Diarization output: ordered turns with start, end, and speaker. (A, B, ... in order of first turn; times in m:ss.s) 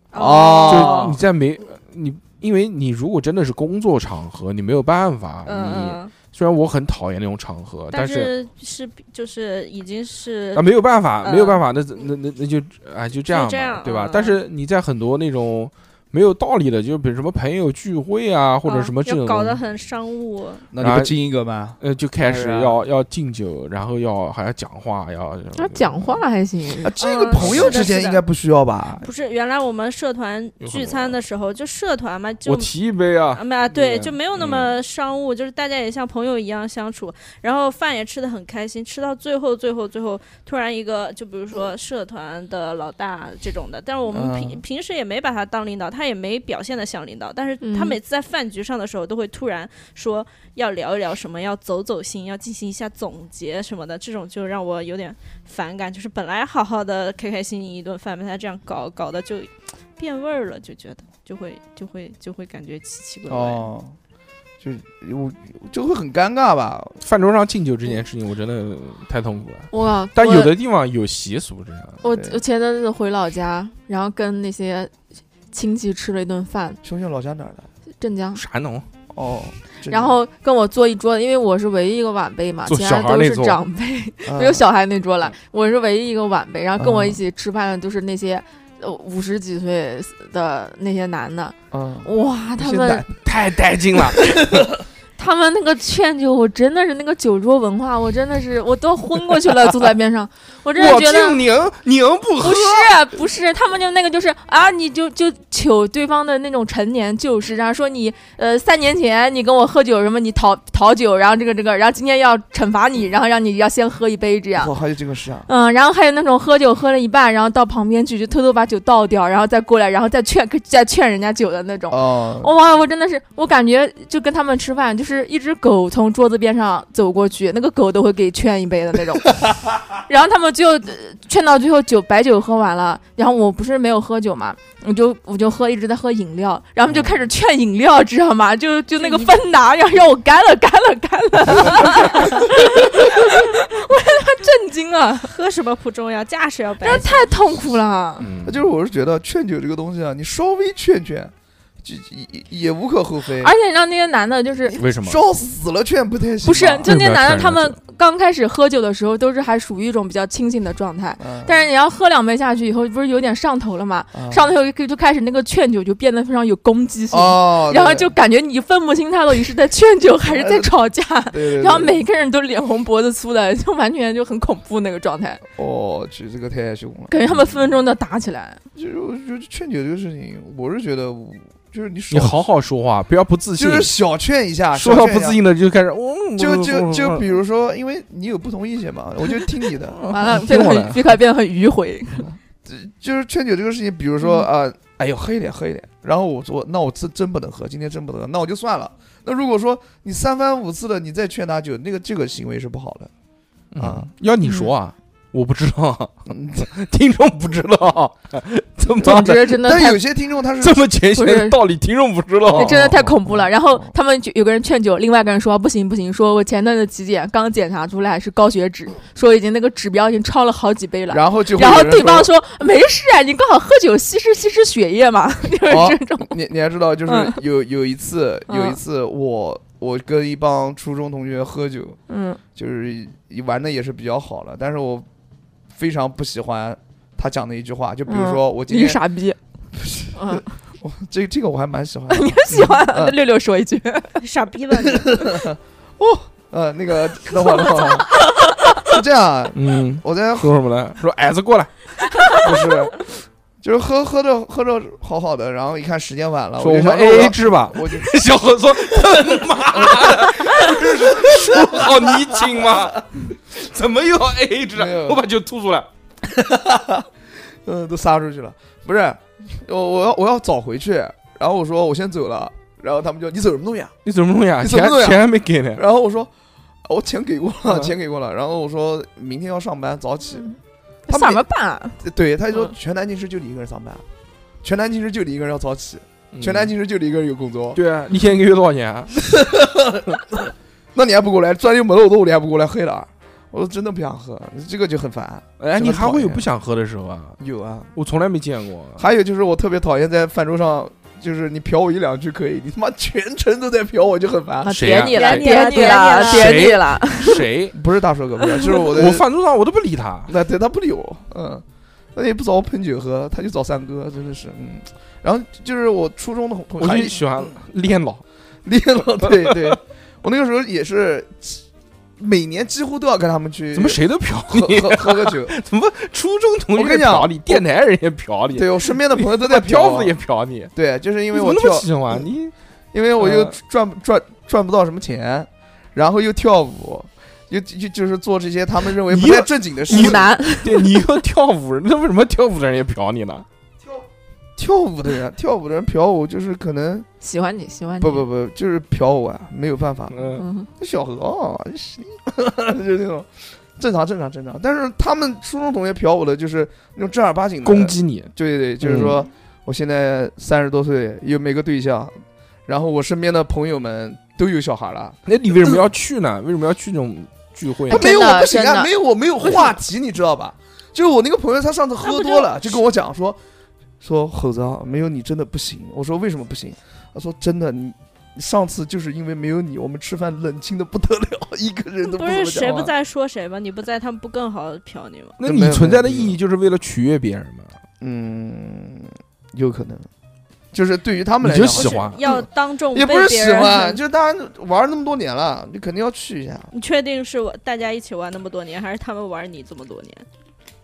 0:00.1-0:01.2 A
0:00.2-0:01.2 B
0:00.7-0:08.3 C
0:05.4-0:06.1 A
0:07.9-0:10.7 A
0:10.5-0:19.6 C
0:11.2-0:11.6 A
0:13.2-0:14.4 A
0:18.6-0:20.6 A
0:20.7-0:22.7 B
0:20.8-0:21.1 C
0:21.8-0:26.2 C
0:25.6-0:26.9 D
0:26.8-0:29.1 B
0:27.0-0:28.2 A
0:27.3-0:27.8 C
0:29.0-0:32.7 A
0:30.6-0:31.2 C
0:32.4-0:34.7 C
0:33.3-1:03.6 A
0:44.1-0:44.6 B
0:47.6-0:48.0 D
1:03.3-1:03.9 B
1:04.6-1:07.0 B
1:07.0-1:12.0 C
1:09.7-1:10.5 D
1:12.0-1:14.9 D
1:12.1-1:12.4 B
1:15.5-1:16.8 D
1:16.8-1:17.7 B
1:18.0-1:18.4 D
1:18.3-1:18.8 C
1:19.1-1:20.2 B
1:19.9-1:33.0 D
1:22.6-1:23.6 C
1:24.2-1:24.6 B
1:26.8-1:27.2 B
1:31.7-1:33.2 B
1:33.2-1:34.6 C
1:34.2-1:34.7 B
1:35.2-1:41.4 D
1:40.8-1:42.9 C
1:42.4-1:54.7 D
1:54.6-1:55.5 B
1:55.5-2:25.3 D
2:01.9-2:02.5 B
2:16.9-2:17.2 B
2:19.0-2:19.4 A
2:25.3-2:27.3 A
2:26.8-2:28.3 D
2:28.2-2:28.6 C
2:28.4-2:33.5 B
2:33.4-2:34.8 D
2:34.7-2:36.9 B
2:34.8-2:35.2 C
2:36.4-2:55.4 D
2:36.8-2:37.8 C
2:41.2-2:41.6 B
2:44.1-2:44.5 B
2:47.1-2:48.1 B
2:50.3-2:50.7 B
2:51.3-2:52.0 B
2:55.5-2:57.1 B
2:57.1-2:58.6 D
2:58.7-3:02.4 B
3:02.1-3:03.9 C
3:03.6-3:05.4 B
3:04.7-3:07.3 C
3:06.4-3:10.0 B
3:09.8-3:11.2 C
3:10.1-3:12.3 D
3:12.2-3:23.1 B
3:14.2-3:14.5 D
3:23.7-3:29.6 C
3:23.8-3:24.1 B
3:24.4-3:24.7 D
3:26.3-3:26.7 B
3:29.0-3:30.8 B
3:29.0-3:30.0 D
3:30.6-3:33.0 C
3:31.2-3:31.6 D
3:32.4-3:33.9 B
3:32.5-3:46.3 D
3:41.1-3:42.3 B
3:45.7-3:52.0 B
3:47.1-3:47.4 D
3:48.5-3:48.8 D
3:52.1-3:52.4 D
3:52.5-3:55.1 B
3:55.7-3:59.0 B
3:58.1-3:59.4 D
3:59.8-4:03.2 B
4:00.1-4:00.4 D
4:02.1-4:04.2 D
4:04.2-4:05.4 A
4:04.7-4:08.2 B
4:07.6-4:07.9 D
4:08.8-4:10.5 B
4:09.5-4:11.7 C
4:12.2-4:12.8 C
4:12.3-4:13.1 B
4:13.6-4:18.1 B
4:16.6-4:25.9 C
4:19.3-4:21.9 B
4:24.8-4:25.2 B
4:26.2-4:27.1 B
4:27.6-4:33.9 B
4:34.0-4:35.8 C
4:34.6-4:36.3 B
4:36.8-4:40.5 B
4:37.6-4:37.9 C
4:40.3-4:42.0 D
4:41.1-4:41.4 B
4:42.0-4:44.0 B
4:44.6-4:47.8 B
4:46.3-4:46.7 C
4:47.7-4:49.3 C
4:49.3-4:50.4 B
4:50.9-4:56.4 B
4:55.6-4:57.4 C
4:57.4-4:57.9 B
4:57.9-4:59.0 C
4:59.0-5:05.1 B
5:04.6-5:07.4 D
5:04.7-5:07.7 C
5:05.1-5:06.7 A
5:07.7-5:09.2 B
5:08.7-5:10.3 C
5:10.3-5:17.5 B
5:16.8-5:18.2 C
5:18.6-5:21.6 B
5:19.2-5:19.8 C
5:22.2-5:25.5 B
5:23.7-5:30.7 C
5:26.7-5:27.6 B
5:28.5-5:30.1 B
5:30.7-5:32.2 B
5:31.3-5:32.5 C
5:32.9-5:40.3 B
5:33.2-5:33.6 C
5:39.1-5:43.4 C
5:39.9-5:41.0 D
5:44.6-5:47.1 B
5:47.2-5:48.2 D
5:48.0-6:02.1 B
5:50.1-5:50.4 C
5:50.4-5:50.7 D
5:57.6-5:59.2 C
6:02.7-6:05.2 B
6:05.2-6:08.4 C
6:07.9-6:09.8 D
6:07.9-6:13.4 B
6:12.0-6:12.5 A
6:14.0-6:22.9 B
6:22.0-6:25.4 A
6:25.4-6:27.7 C
6:25.4-6:26.3 B
6:28.0-6:30.1 B
6:30.7-6:32.4 B
6:31.4-6:32.2 C
6:31.7-6:34.0 A
6:32.9-6:36.7 B
6:36.7-6:40.2 A